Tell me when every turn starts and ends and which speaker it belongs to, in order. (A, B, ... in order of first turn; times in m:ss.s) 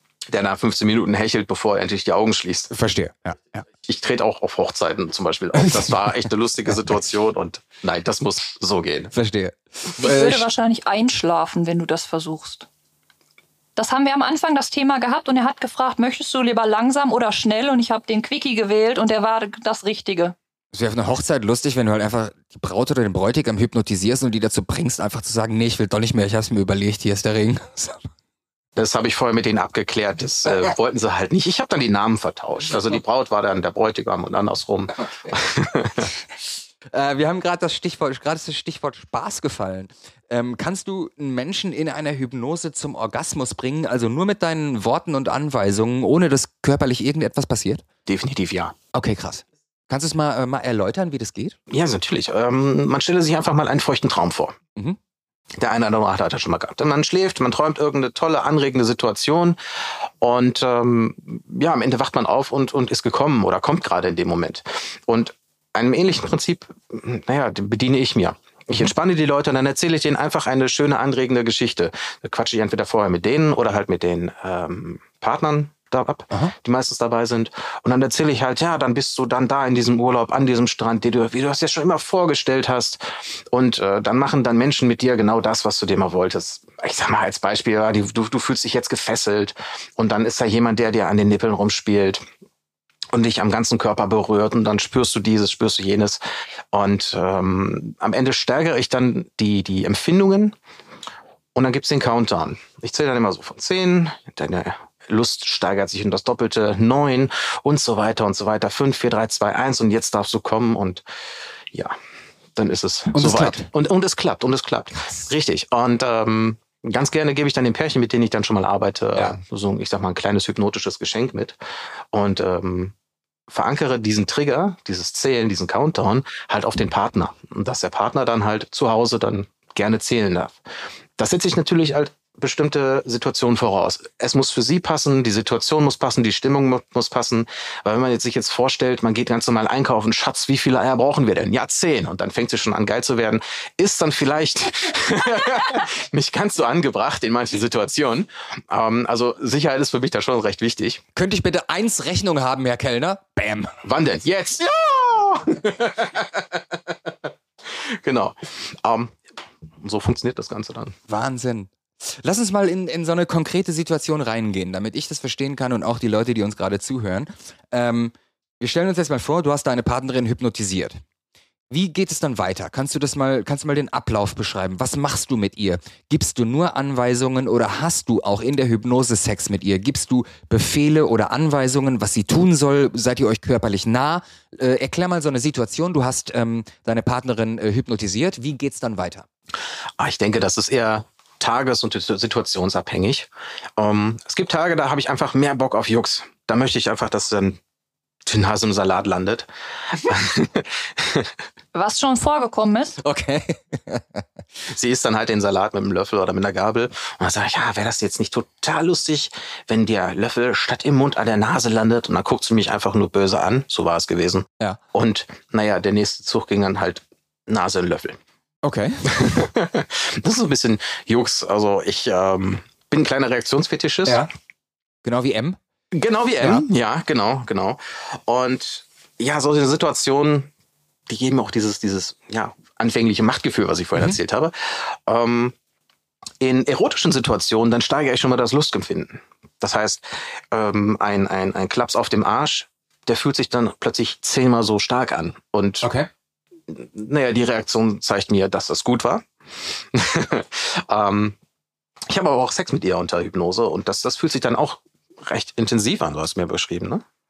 0:00.3-0:02.7 A
0:02.7-0:03.6 B
0:03.8-0:09.1 A
0:05.6-0:06.1 B
0:09.1-0:10.5 B
0:10.0-0:12.7 C
0:13.8-0:20.4 C
0:20.7-0:28.0 B
0:28.8-0:36.1 A
0:36.9-0:47.8 B
0:48.1-0:48.8 A
0:48.9-0:51.6 B
0:51.7-0:54.6 A
0:55.6-0:59.6 A
1:00.2-1:32.2 A
1:33.1-1:36.2 A
1:36.7-1:40.6 A
1:41.6-1:51.0 A
1:52.6-2:01.6 A
1:53.1-1:53.7 B
2:02.1-2:02.9 A
2:03.5-2:10.6 A
2:11.2-2:31.0 A
2:31.2-2:33.8 B
2:33.8-2:36.6 A
2:37.7-2:39.2 A
2:39.8-2:41.0 A
2:41.1-2:51.0 B
2:51.7-3:09.3 B
3:10.0-3:17.6 A
3:18.3-3:21.3 A
3:21.7-3:23.0 C
3:23.0-3:24.2 B
3:24.7-3:38.2 A
3:38.6-3:39.4 B
3:39.1-3:44.2 A
3:45.0-3:45.6 B
3:45.9-3:50.5 A
3:51.1-3:55.6 A
3:56.4-4:05.9 A
4:05.8-4:06.1 B
4:06.7-4:11.4 A
4:12.1-4:17.0 A